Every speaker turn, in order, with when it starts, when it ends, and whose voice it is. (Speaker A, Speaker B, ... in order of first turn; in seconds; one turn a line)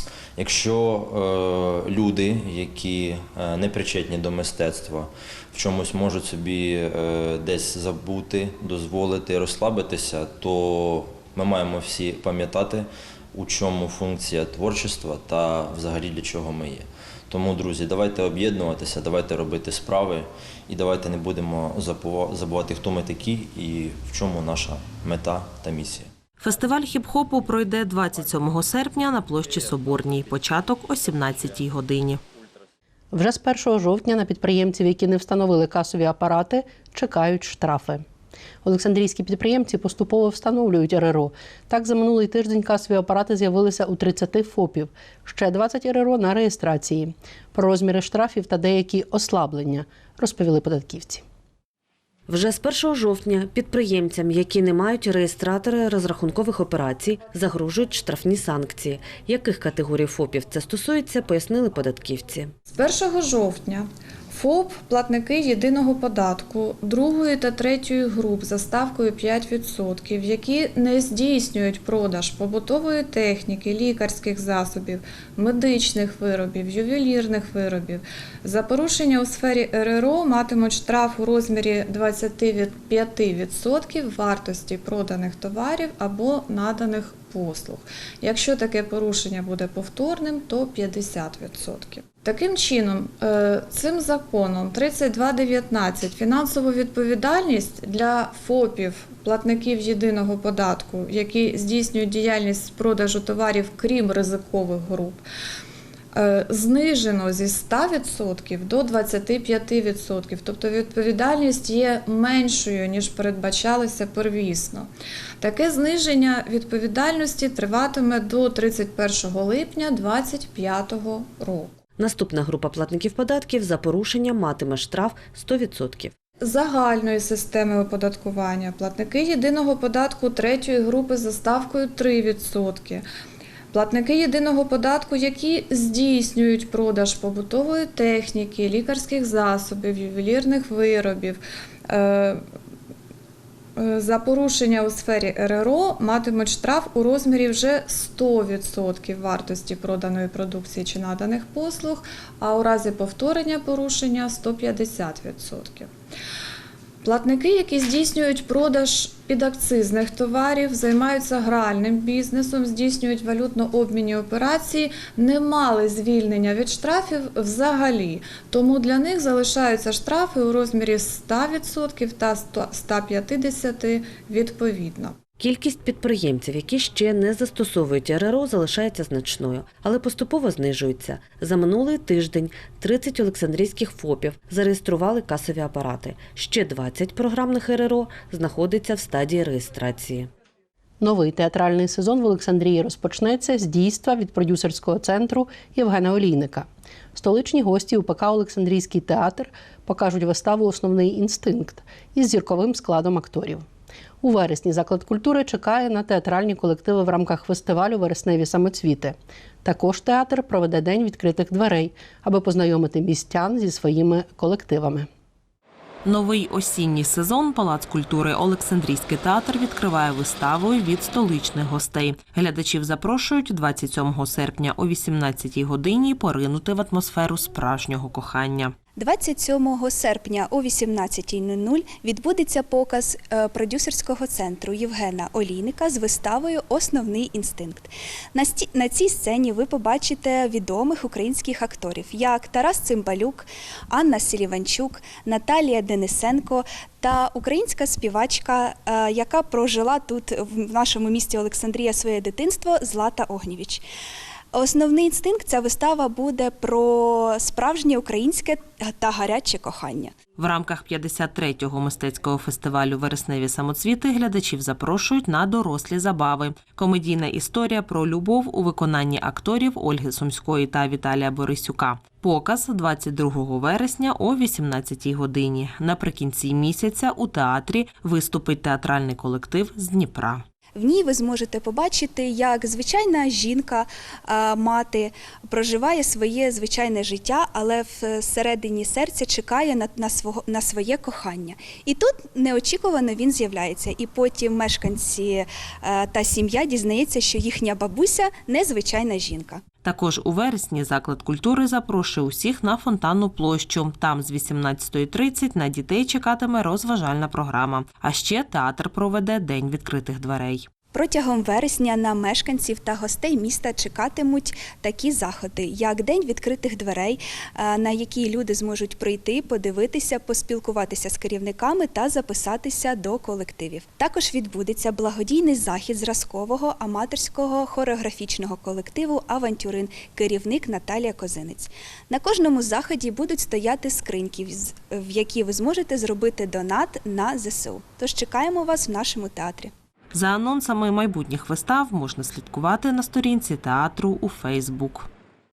Speaker A: 0.4-26.1
Speaker B: 26.4-32.2
Speaker C: 33.1-38.0
Speaker C: 38.6-51.2
Speaker D: 52.3-62.5
Speaker E: 62.7-105.2
Speaker E: 106.1-114.9
Speaker E: 115.4-121.8
Speaker D: 122.0-126.1
Speaker E: 126.4-133.0
Speaker E: 133.7-142.4
Speaker E: 143.8-155.9
Speaker E: 157.0-175.2
Speaker D: 175.4-190.3
Speaker C: 191.0-203.7
Speaker C: 204.2-215.1
Speaker B: 216.1-228.7
Speaker F: 229.0-253.8
Speaker F: 254.5-260.1
Speaker B: 260.4-280.4
Speaker F: 280.8-299.6
Speaker B: 299.8-310.7
Speaker F: 310.9-339.7
Speaker B: 340.1-345.1